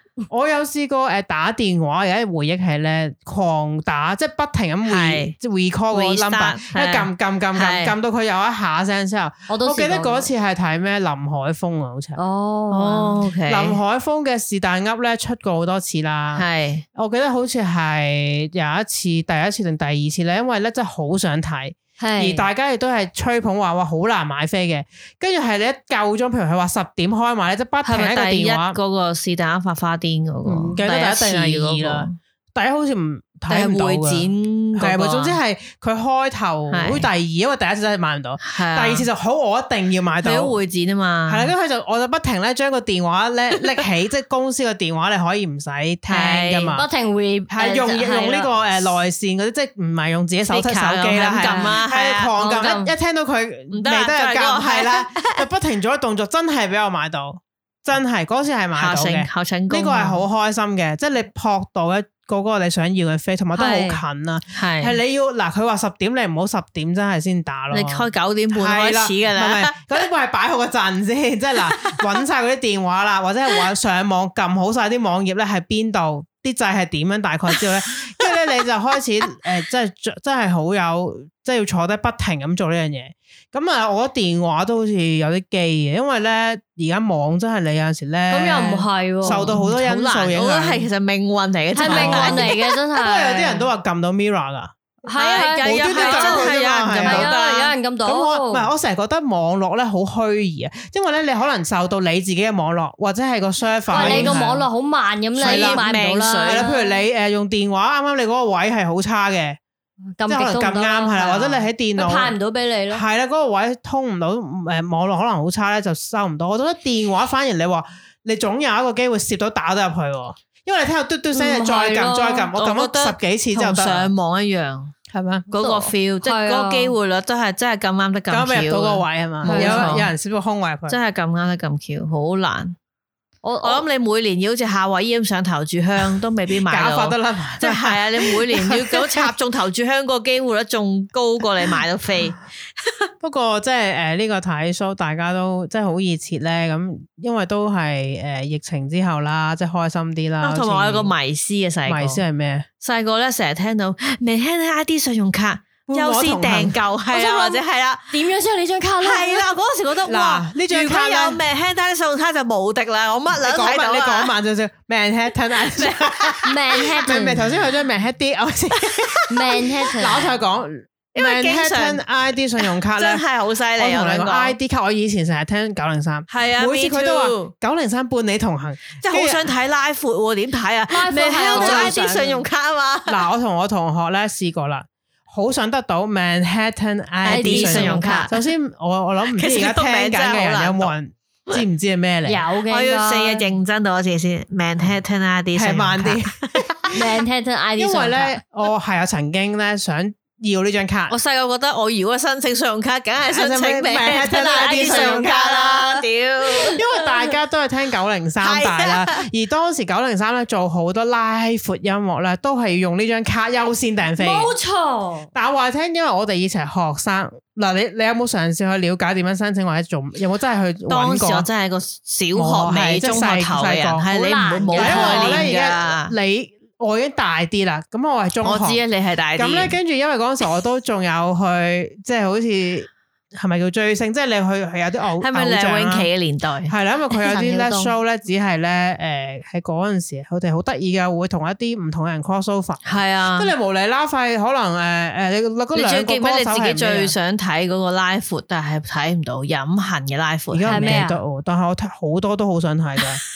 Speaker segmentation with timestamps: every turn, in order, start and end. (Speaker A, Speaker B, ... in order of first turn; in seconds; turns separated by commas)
Speaker A: 0.3-12.2, Speaker B: 4.8-5.3, Speaker B: 5.9-7.9, Speaker C: 9.5-10.3, Speaker C: 12.2-13.2, Speaker B: 12.7-13.8, Speaker A: 13.5-28.8, Speaker B: 16.3-16.8, Speaker C: 22.0-22.5, Speaker B: 27.8-32.2, Speaker A: 30.4-40.5, Speaker B: 33.5-35.4, Speaker B: 36.7-37.1, Speaker B: 38.4-39.1, Speaker B: 40.2-41.5, Speaker A: 41.3-46.8, Speaker B: 46.1-46.8, Speaker C: 46.8-48.5, Speaker A: 47.5-90.9, Speaker B: 50.5-52.3, Speaker C: 51.4-51.8, Speaker C: 52.4-52.9, Speaker B: 53.7-55.5, Speaker B: 58.8-60.2, Speaker C: 63.5-64.0, Speaker B: 64.5-65.0, Speaker B: 67.7-69.8, Speaker B: 71.8-72.0, Speaker C: 88.3-89.5, Speaker B: 89.2-92.6, Speaker C: 91.7-93.7, Speaker A: 91.8-94.7, Speaker C: 95.0-96.5, Speaker B: 95.1-97.7, Speaker A: 95.6-97.3, Speaker C: 97.0-98.7, Speaker A: 98.0-104.6, Speaker C: 103.9-107.0, Speaker B: 103.9-104.5, Speaker A: 105.4-105.8, Speaker B: 105.4-106.7, Speaker A: 106.4-109.6, Speaker C: 110.2-113.0, Speaker A: 110.3-112.3, Speaker A: 112.9-124.1, Speaker C: 121.3-122.5, Speaker B: 122.5-124.9, Speaker A: 125.1-125.5, Speaker B: 125.5-130.1, Speaker C: 125.5-126.9, Speaker A: 128.3-131.0, Speaker C: 129.4-129.9, Speaker B: 130.9-132.8, Speaker C: 133.4-133.8, Speaker B: 133.6-142.9, Speaker A: 136.6-139.3, Speaker A: 143.2-151.1, Speaker B: 150.4-152.2, Speaker A: 151.8-152.7, Speaker B: 152.8-158.2, Speaker A: 155.9-157.6, Speaker C: 157.2-157.5, Speaker C: 158.1-159.5, Speaker B: 159.0-164.3, Speaker A: 160.1-161.4, Speaker A: 163.3-173.2, Speaker B: 165.6-166.4, Speaker C: 166.4-167.4, Speaker C: 169.3-170.3, Speaker B: 171.1-172.0, Speaker B: 172.6-174.6, Speaker A: 173.8-179.5, Speaker B: 176.3-177.5, Speaker B: 178.9-183.2, Speaker C: 180.9-182.2, Speaker A: 181.5-182.4, Speaker A: 183.1-192.4, Speaker B: 187.2-188.4, Speaker C: 187.2-188.3, Speaker B: 189.3-190.9, Speaker C: 192.2-193.5, Speaker B: 192.7-196.3, Speaker A: 195.5-196.9, Speaker C: 196.9-198.4, Speaker A: 197.8-201.2, Speaker B: 201.1-207.3, Speaker A: 203.3-206.0, Speaker C: 204.4-205.4, Speaker A: 206.7-214.5, Speaker B: 208.4-209.2, Speaker C: 214.2-215.3, Speaker A: 215.3-221.5, Speaker B: 220.9-226.1, Speaker A: 222.3-224.1, Speaker C: 224.1-225.6, Speaker A: 224.7-228.8, Speaker B: 228.4-229.8, Speaker A: 229.3-236.1, Speaker B: 235.2-237.9, Speaker A: 236.7-247.1, Speaker B: 242.8-243.5, Speaker B: 245.7-251.0, Speaker A: 250.5-253.2, Speaker C: 250.7-251.2